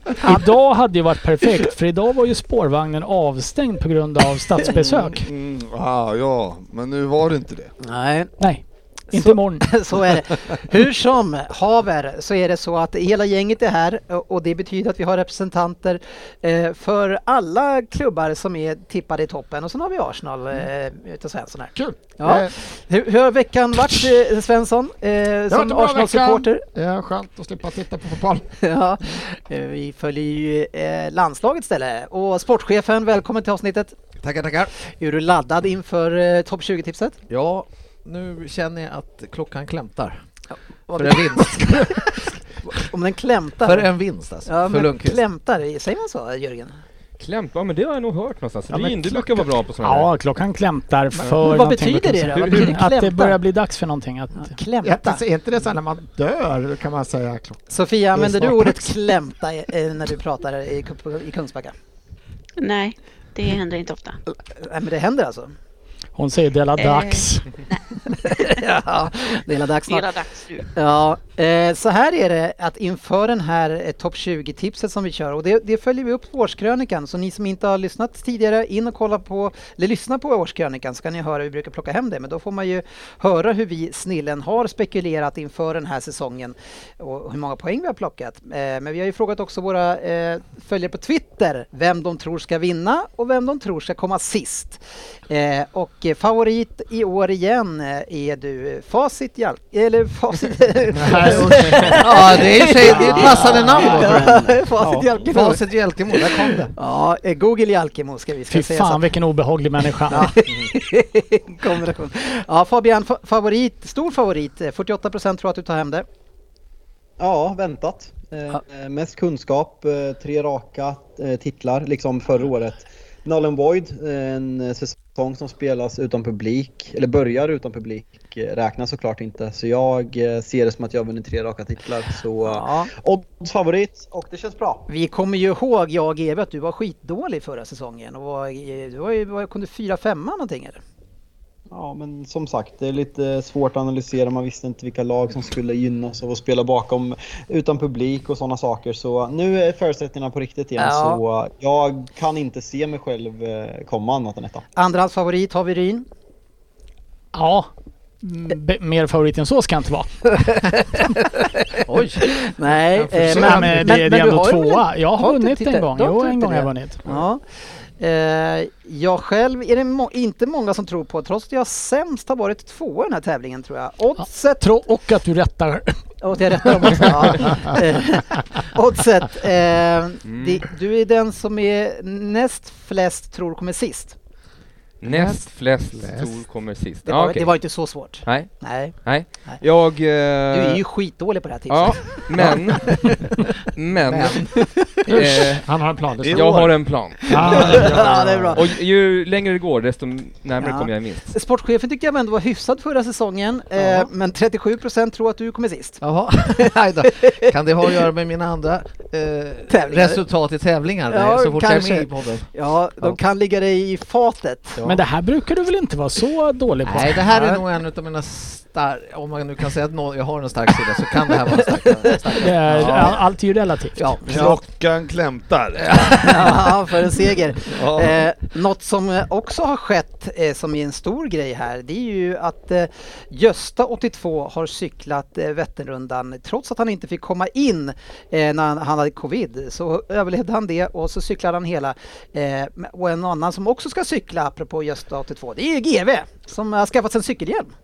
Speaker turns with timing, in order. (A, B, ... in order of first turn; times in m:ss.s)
0:00.2-0:05.3 A
0:04.6-0:04.9 B
0:04.8-0:07.7 C
0:07.8-0:08.3 B
0:08.4-0:09.8 A
0:09.1-0:26.6 B
0:21.8-0:22.6 D
0:25.5-0:28.5 D
0:28.6-0:33.9 B
0:34.2-0:34.7 E
0:34.8-0:37.2 B
0:37.3-0:40.2 E
0:40.5-0:43.9 B
0:40.9-0:42.0 E
0:43.6-0:45.2 E
0:44.4-0:46.8 B
0:47.2-0:50.1 F
0:48.7-0:54.6 A
0:51.4-0:53.4 B
0:52.3-0:52.7 F
0:54.4-0:55.2 B
0:54.8-0:58.9 D
0:57.7-1:01.7 B
1:02.6-1:04.2 G
1:04.5-1:05.5 B
1:06.2-1:07.5 A
1:06.8-1:07.8 G
1:08.1-1:49.1 B
1:09.9-1:10.7 G
1:41.0-1:42.1 D
1:42.0-1:46.7 E
1:48.5-1:50.3 A
1:50.1-1:56.0 B
1:57.2-2:14.8 H
2:12.5-2:12.9 B
2:14.9-2:20.8 B
2:21.7-2:34.6 H
2:30.8-2:31.2 B
2:34.8-2:36.0 B
2:37.3-2:37.7 A
2:38.2-2:40.3 A
2:40.3-2:41.3 B
2:41.8-2:42.3 E
2:42.0-2:47.4 B
2:43.1-2:47.1 A
2:43.2-2:43.8 D
2:48.0-2:54.7 B
2:54.2-2:56.0 A
2:56.2-3:04.2 B
3:00.2-3:00.6 F
3:05.0-3:07.6 F
3:05.0-3:06.3 D
3:07.0-3:09.0 B
3:08.2-3:10.8 F
3:10.5-3:13.1 B
3:11.7-3:13.1 F
3:13.7-3:14.5 F
3:14.1-3:14.5 E
3:15.0-3:15.6 F
3:15.1-3:16.6 D
3:16.2-3:18.0 C
3:16.3-3:21.3 F
3:17.3-3:18.6 D
3:17.4-3:18.6 B
3:20.6-3:26.0 B
3:23.8-3:24.1 E
3:26.0-3:32.5 E
3:26.6-3:28.0 B
3:29.7-3:30.2 B
3:31.1-3:34.8 B
3:34.8-3:37.3 A
3:36.8-3:43.2 E
3:37.3-3:37.6 B
3:42.4-3:44.5 A
3:42.7-3:43.1 B
3:44.0-3:44.4 E
3:44.2-3:45.8 C
3:45.8-3:46.8 E
3:46.2-4:07.7 B
3:47.7-3:48.3 C